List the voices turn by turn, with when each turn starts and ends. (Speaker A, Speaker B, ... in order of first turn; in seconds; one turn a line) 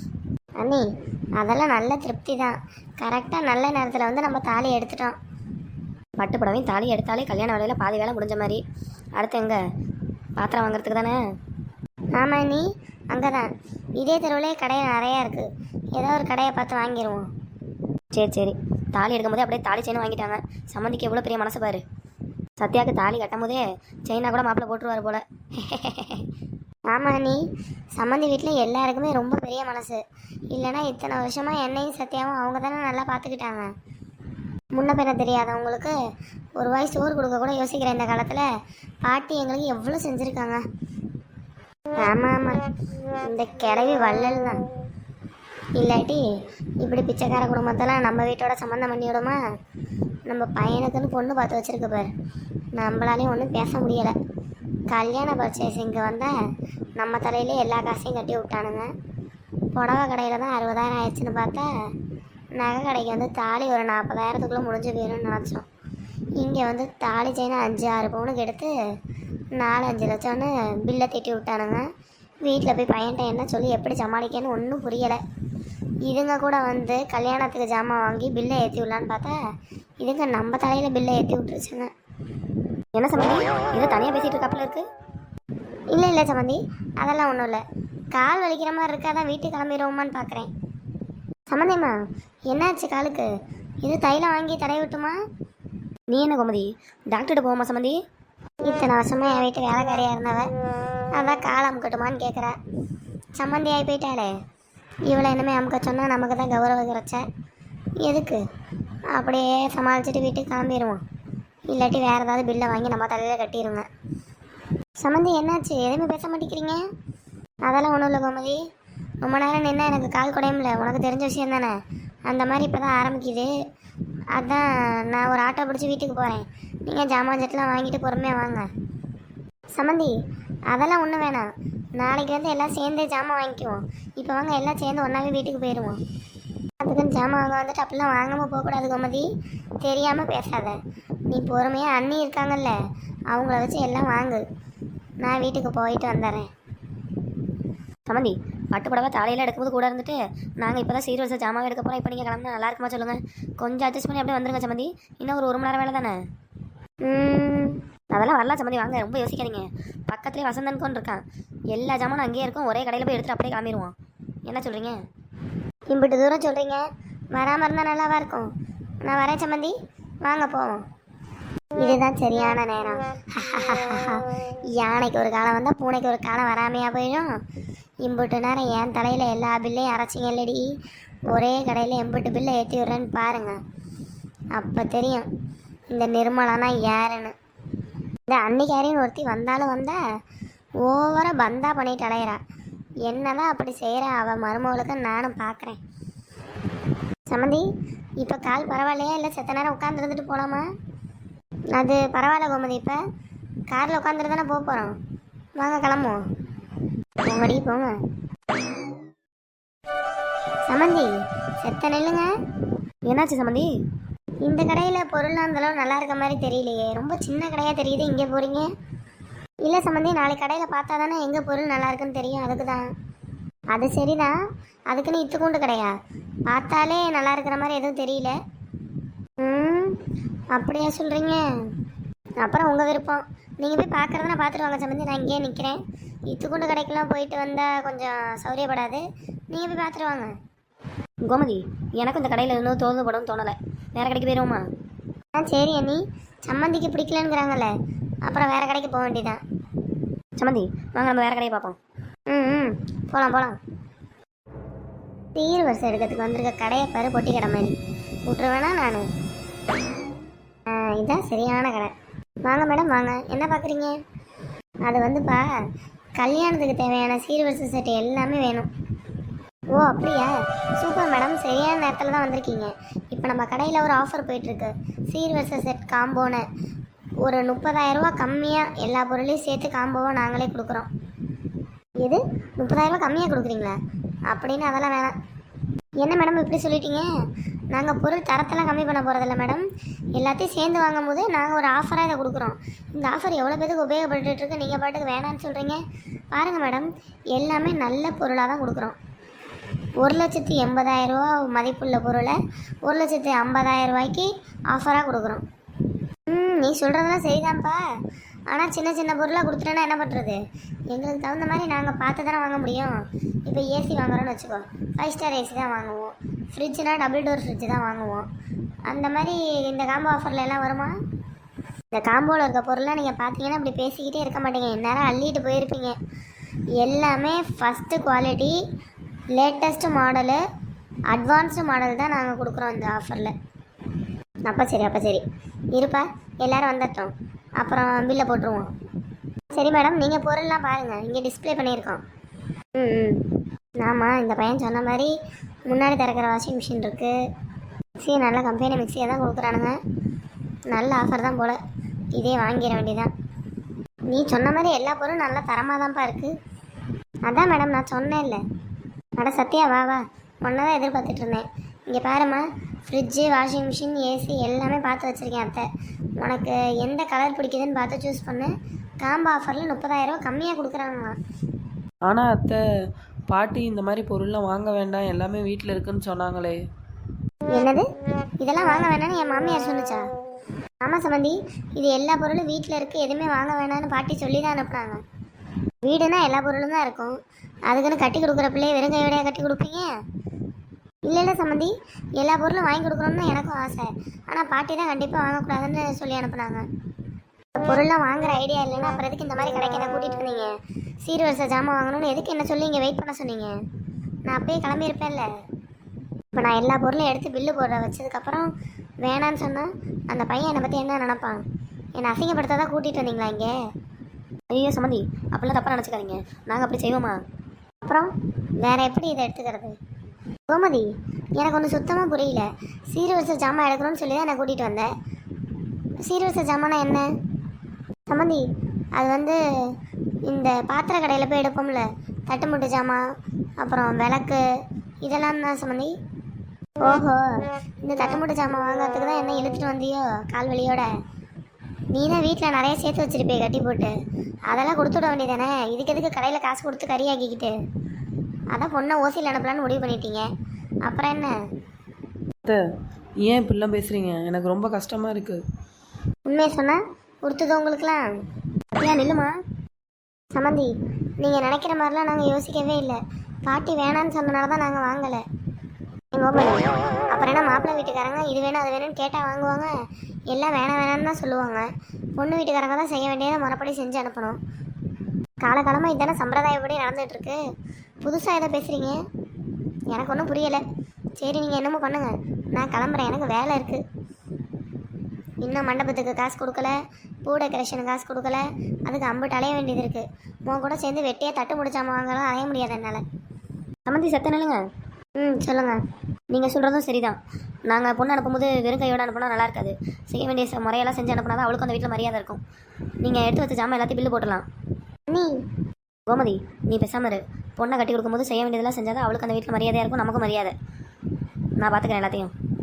Speaker A: 1.4-5.2
Speaker B: 6.2-8.6
Speaker B: 9.2-9.6
Speaker B: 10.4-11.2
Speaker A: 12.2-17.3
Speaker B: 18.1-21.8
Speaker B: 22.6-26.3
Speaker A: 26.9-27.4
Speaker A: 28.0-33.7
Speaker A: 34.7-35.9
Speaker A: 36.6-38.5
Speaker A: 39.0-40.6
Speaker A: 42.0-44.7
Speaker A: 45.8-46.2
Speaker A: 46.8-49.4
Speaker A: 50.3-52.1
Speaker A: 52.7-54.1
Speaker A: 54.9-56.4
Speaker A: 57.0-58.9
Speaker A: 59.7-61.9
Speaker A: 62.6-65.7
Speaker A: 66.4-68.7
Speaker A: 69.6-71.9
Speaker A: 72.4-75.2
Speaker A: 76.1-79.4
Speaker A: 80.0-81.9
Speaker B: 83.0-84.8
Speaker A: 85.9-87.6
Speaker A: 88.1-90.5
Speaker A: 91.5-92.0
Speaker A: 92.5-93.3
Speaker A: 93.8-95.2
Speaker B: 96.1-98.0
Speaker A: 98.6-100.5
Speaker A: 101.1-102.5
Speaker A: 103.4-104.3
Speaker A: 105.1-107.2
Speaker A: 108.0-108.4
Speaker A: 109.1-111.0
Speaker A: 111.7-113.9
Speaker A: 115.0-116.8
Speaker A: 117.7-118.6
Speaker A: 119.2-121.8
Speaker A: 122.3-123.5
Speaker A: 124.3-128.7
Speaker A: 129.7-130.2
Speaker A: 130.7-136.0
Speaker A: 136.8-139.3
Speaker A: 139.8-140.8
Speaker A: 141.3-142.8
Speaker A: 143.3-144.4
Speaker A: 145.2-146.5
Speaker B: 148.1-156.2
Speaker A: 157.0-157.8
Speaker B: 158.1-163.9
Speaker B: 164.5-165.0
Speaker A: 165.9-170.8
Speaker A: 171.8-177.3
Speaker A: 178.0-180.8
Speaker A: 181.3-183.6
Speaker A: 184.5-185.3
Speaker A: 185.9-187.3
Speaker A: 188.3-190.0
Speaker A: 190.8-192.4
Speaker A: 193.1-195.8
Speaker A: 197.3-197.7
Speaker A: 198.2-200.7
Speaker A: 201.7-203.0
Speaker A: 203.7-205.0
Speaker A: 205.6-206.2
Speaker A: 207.2-207.9
Speaker A: 210.7-212.3
Speaker B: 213.1-213.7
Speaker A: 214.4-218.7
Speaker A: 219.6-222.9
Speaker A: 223.7-224.3
Speaker A: 224.9-225.9
Speaker A: 226.5-228.3
Speaker A: 229.4-230.0
Speaker A: 230.5-231.8
Speaker A: 232.4-240.3
Speaker B: 241.2-244.6
Speaker A: 245.3-247.7
Speaker A: 248.2-249.4
Speaker B: 250.4-251.8
Speaker A: 252.3-253.6
Speaker A: 255.4-259.1
Speaker A: 260.7-261.9
Speaker A: 262.4-264.0
Speaker A: 264.9-265.5
Speaker A: 266.2-268.7
Speaker A: 269.7-276.5
Speaker A: 277.2-280.9
Speaker A: 282.0-283.8
Speaker A: 284.3-285.2
Speaker A: 286.0-287.1
Speaker A: 287.7-295.8
Speaker A: 296.3-299.0
Speaker A: 300.0-305.4
Speaker A: 306.3-307.8
Speaker A: 308.5-318.3
Speaker A: 318.9-320.9
Speaker A: 321.9-326.0
Speaker A: 326.8-328.6
Speaker A: 329.3-330.4
Speaker A: 331.1-333.3
Speaker A: 334.4-338.7
Speaker A: 339.5-342.0
Speaker A: 342.8-345.1
Speaker A: 345.7-347.1
Speaker A: 348.0-349.8
Speaker A: 350.7-351.6
Speaker A: 352.1-353.1
Speaker A: 354.1-356.3
Speaker A: 357.2-358.4
Speaker A: 359.2-365.7
Speaker A: 366.2-371.2
Speaker C: 372.1-372.6
Speaker C: 373.3-376.6
Speaker A: 377.5-377.9
Speaker A: 378.4-380.1
Speaker A: 380.8-385.0
Speaker A: 385.8-389.9
Speaker A: 391.1-396.6
Speaker A: 397.6-403.6
Speaker A: 404.3-405.3
Speaker A: 406.3-411.4
Speaker A: 412.0-413.6
Speaker B: 414.5-417.2
Speaker A: 417.8-418.1
Speaker A: 418.6-419.8
Speaker A: 420.5-424.9
Speaker A: 426.1-427.1
Speaker A: 428.1-428.4
Speaker A: 429.0-429.8
Speaker A: 430.3-433.1
Speaker A: 433.6-434.4
Speaker A: 435.0-435.9
Speaker A: 436.8-440.9
Speaker A: 441.9-444.0
Speaker A: 444.5-447.5
Speaker A: 448.5-450.3
Speaker A: 450.9-451.4
Speaker C: 453.2-455.4
Speaker A: 456.3-458.0
Speaker B: 458.8-459.3
Speaker A: 460.3-465.2
Speaker A: 466.1-469.7
Speaker A: 470.3-474.4
Speaker A: 475.4-477.4
Speaker A: 478.0-479.0
Speaker A: 479.9-480.6
Speaker A: 481.2-483.8
Speaker A: 485.4-493.0
Speaker B: 493.9-494.6
Speaker A: 495.2-495.8
Speaker B: 496.3-497.2
Speaker B: 497.7-502.4
Speaker B: 503.0-504.4
Speaker A: 505.1-505.4
Speaker B: 506.1-510.5
Speaker B: 511.6-512.3